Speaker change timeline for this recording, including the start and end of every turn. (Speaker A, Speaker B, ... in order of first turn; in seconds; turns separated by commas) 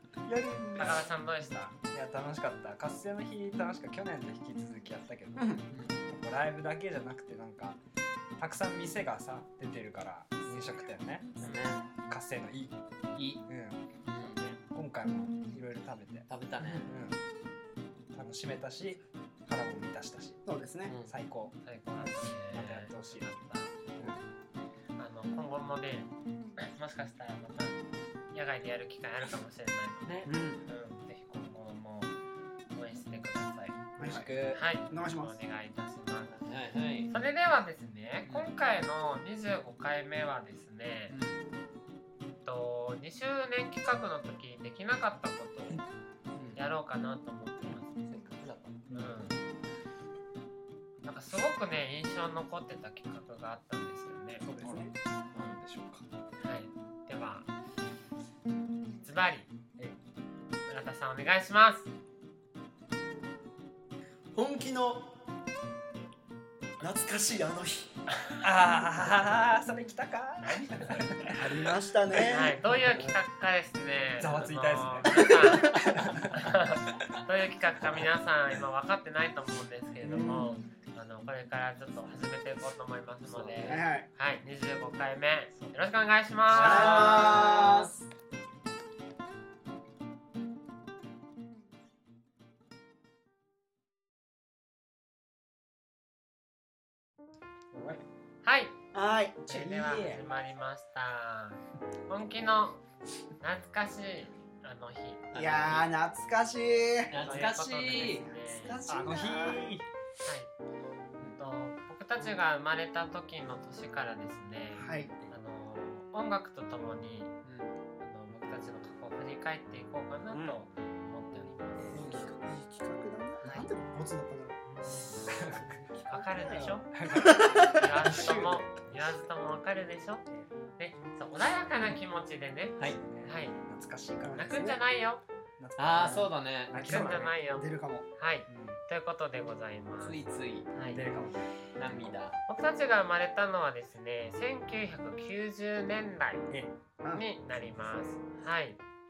Speaker A: 0.2-1.1, Speaker B: 0.8-1.7, Speaker A: 1.9-7.8, Speaker C: 5.4-5.6, Speaker D: 5.7-6.0, Speaker A: 8.4-12.7, Speaker C: 10.4-10.8, Speaker D: 11.4-11.8, Speaker D: 13.2-13.4, Speaker A: 13.4-13.8, Speaker D: 14.0-14.4, Speaker B: 14.2-14.6, Speaker A: 14.6-17.2, Speaker D: 16.3-16.9, Speaker A: 18.1-20.4, Speaker C: 20.4-21.0, Speaker D: 20.9-21.1, Speaker A: 21.1-23.3, Speaker B: 21.6-23.8, Speaker B: 25.0-27.8, Speaker B: 28.3-32.1, Speaker D: 30.0-30.3, Speaker C: 30.2-30.6, Speaker B: 32.7-33.8, Speaker C: 34.0-35.4, Speaker A: 34.0-34.6, Speaker B: 34.5-36.5, Speaker D: 36.4-37.1, Speaker B: 37.1-41.2, Speaker D: 38.2-38.5, Speaker D: 41.1-41.4, Speaker B: 42.2-45.8, Speaker D: 46.3-46.6, Speaker B: 46.5-47.9, Speaker D: 48.1-48.9, Speaker B: 48.9-49.4, Speaker B: 51.0-54.5, Speaker C: 54.4-54.9, Speaker A: 54.5-56.0, Speaker B: 56.4-57.5, Speaker B: 59.0-59.5, Speaker B: 60.7-61.9, Speaker C: 64.3-65.1, Speaker C: 66.8-67.9, Speaker A: 68.4-71.7, Speaker B: 70.5-71.2, Speaker C: 71.3-73.1, Speaker B: 72.2-75.8, Speaker A: 74.2-76.3, Speaker B: 76.3-87.9, Speaker C: 80.0-80.6, Speaker D: 83.2-83.8, Speaker C: 83.6-84.1, Speaker C: 86.5-87.9, Speaker D: 86.7-87.7, Speaker A: 97.7-98.0, Speaker B: 98.4-98.7, Speaker C: 98.9-99.7, Speaker B: 99.5-102.8, Speaker A: 99.5-100.2, Speaker B: 103.4-105.8, Speaker D: 105.3-105.8, Speaker C: 105.3-107.2, Speaker D: 107.1-108.3, Speaker B: 107.2-108.8, Speaker C: 108.3-109.7, Speaker A: 108.8-109.8, Speaker B: 110.2-110.5, Speaker B: 111.4-117.3, Speaker C: 114.7-115.1, Speaker D: 117.4-117.7, Speaker B: 118.0-122.3, Speaker C: 121.9-127.9, Speaker D: 122.0-122.3, Speaker B: 123.4-123.7, Speaker A: 125.3-125.7, Speaker B: 126.1-126.9, Speaker A: 126.9-129.2, Speaker B: 127.7-130.2, Speaker B: 130.8-133.6, Speaker A: 132.8-134.6, Speaker C: 134.2-134.8, Speaker B: 134.3-135.2, Speaker A: 135.6-137.3, Speaker D: 135.8-137.1, Speaker B: 136.8-140.2, Speaker C: 136.9-138.1, Speaker A: 138.5-138.8, Speaker D: 140.0-140.7, Speaker B: 140.7-141.0, Speaker A: 140.8-142.2, Speaker D: 141.7-142.4, Speaker B: 142.5-146.5, Speaker B: 147.1-148.8